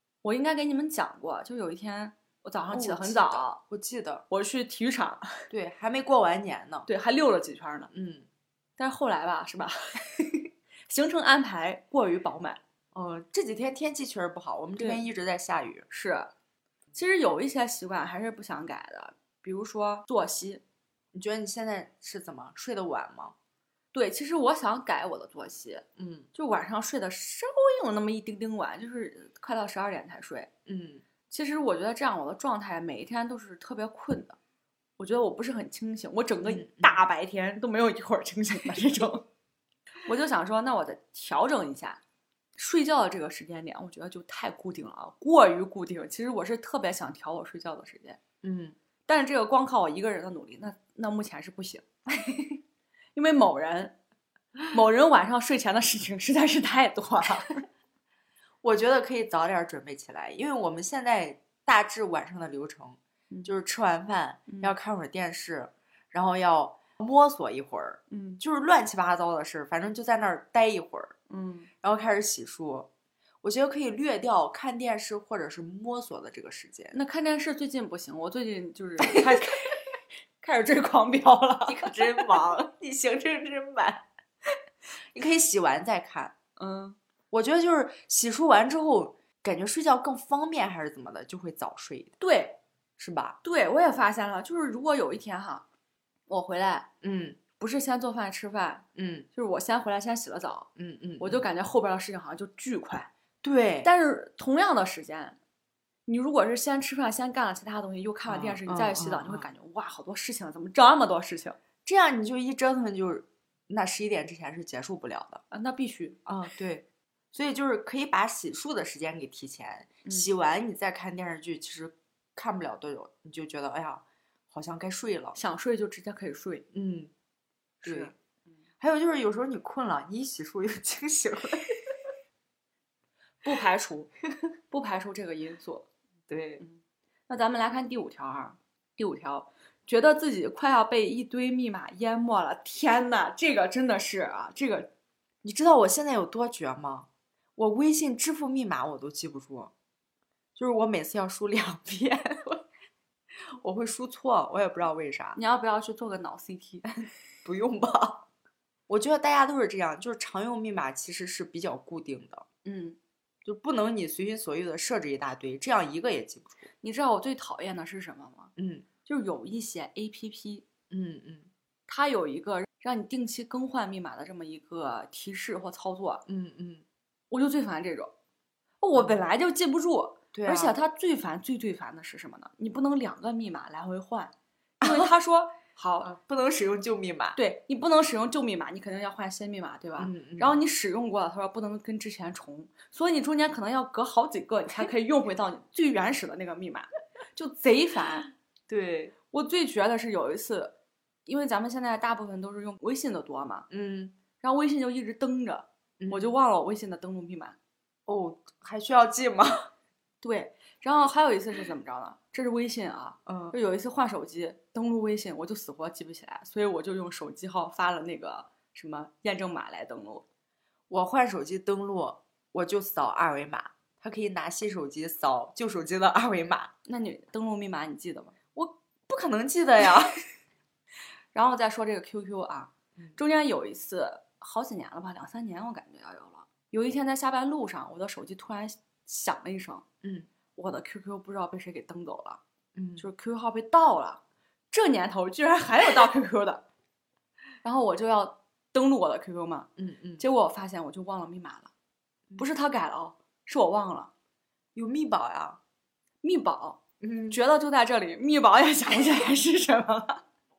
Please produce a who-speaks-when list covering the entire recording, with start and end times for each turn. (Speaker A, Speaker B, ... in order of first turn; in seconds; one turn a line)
Speaker A: 0.2-3.6
Speaker B: 2.7-4.2
Speaker A: 4.3-5.5
Speaker B: 5.5-6.9
Speaker A: 6.9-7.9
Speaker B: 7.9-8.3
Speaker A: 8.8-12.6
Speaker B: 12.9-15.9
Speaker A: 14.8-15.0
Speaker A: 15.9-16.3
Speaker A: 16.9-20.6
Speaker B: 21.1-23.4
Speaker A: 23.9-30.5
Speaker B: 26.0-26.3
Speaker B: 30.7-31.0
Speaker A: 31.3-34.4
Speaker A: 35.0-39.2
Speaker B: 36.5-37.0
Speaker A: 40.0-42.0
Speaker A: 42.6-48.2
Speaker B: 48.4-48.8
Speaker A: 49.1-51.9
Speaker A: 53.1-54.0
Speaker A: 54.7-57.6
Speaker B: 58.6-71.1
Speaker A: 64.5-64.8
Speaker A: 68.1-68.4
Speaker A: 71.3-71.7
Speaker B: 71.8-72.9
Speaker B: 73.4-77.0
Speaker A: 76.9-79.8
Speaker A: 80.4-82.3
Speaker B: 81.7-84.1
Speaker B: 85.1-86.3
Speaker A: 86.6-87.0
Speaker B: 87.3-92.2
Speaker A: 92.2-92.6
Speaker B: 93.0-93.4
Speaker A: 93.4-95.6
Speaker A: 96.3-96.9
Speaker B: 97.0-97.4
Speaker A: 97.6-100.7
Speaker B: 99.0-99.3
Speaker B: 100.8-101.4
Speaker A: 101.2-103.1
Speaker B: 103.4-103.9
Speaker A: 103.8-105.4
Speaker A: 106.1-111.6
Speaker B: 108.3-109.5
Speaker B: 111.9-115.4
Speaker A: 115.5-116.2
Speaker B: 116.3-125.4
Speaker A: 125.3-126.7
Speaker B: 126.7-127.1
Speaker B: 127.8-128.1
Speaker A: 127.8-128.1
Speaker B: 128.8-132.1
Speaker A: 133.4-134.1
Speaker A: 134.7-135.9
Speaker B: 136.3-136.6
Speaker A: 136.6-144.9
Speaker B: 145.4-149.7
Speaker B: 150.6-152.7
Speaker B: 153.5-155.4
Speaker A: 155.4-157.1
Speaker B: 157.4-158.2
Speaker B: 158.9-162.4
Speaker A: 162.6-163.0
Speaker B: 163.4-166.7
Speaker A: 166.8-168.5
Speaker B: 168.6-168.9
Speaker A: 169.1-170.7
Speaker B: 170.9-171.5
Speaker A: 171.9-176.2
Speaker B: 176.3-176.8
Speaker A: 177.3-178.1
Speaker A: 178.8-186.1
Speaker B: 180.3-180.8
Speaker B: 184.8-185.1
Speaker B: 186.0-187.4
Speaker A: 187.4-198.3
Speaker B: 190.0-190.6
Speaker B: 198.7-199.1
Speaker A: 199.3-200.8
Speaker A: 201.3-203.7
Speaker B: 203.7-204.1
Speaker A: 204.4-207.6
Speaker B: 206.0-206.4
Speaker B: 208.1-209.7
Speaker A: 210.2-220.2
Speaker B: 213.3-213.6
Speaker B: 220.9-226.7
Speaker A: 226.9-228.3
Speaker B: 228.6-230.2
Speaker A: 231.3-239.8
Speaker B: 240.0-240.3
Speaker A: 240.6-242.4
Speaker B: 242.8-243.1
Speaker A: 243.0-246.6
Speaker A: 247.6-251.7
Speaker B: 249.8-250.2
Speaker A: 252.4-254.1
Speaker B: 254.8-255.6
Speaker A: 256.2-260.2
Speaker B: 257.0-257.4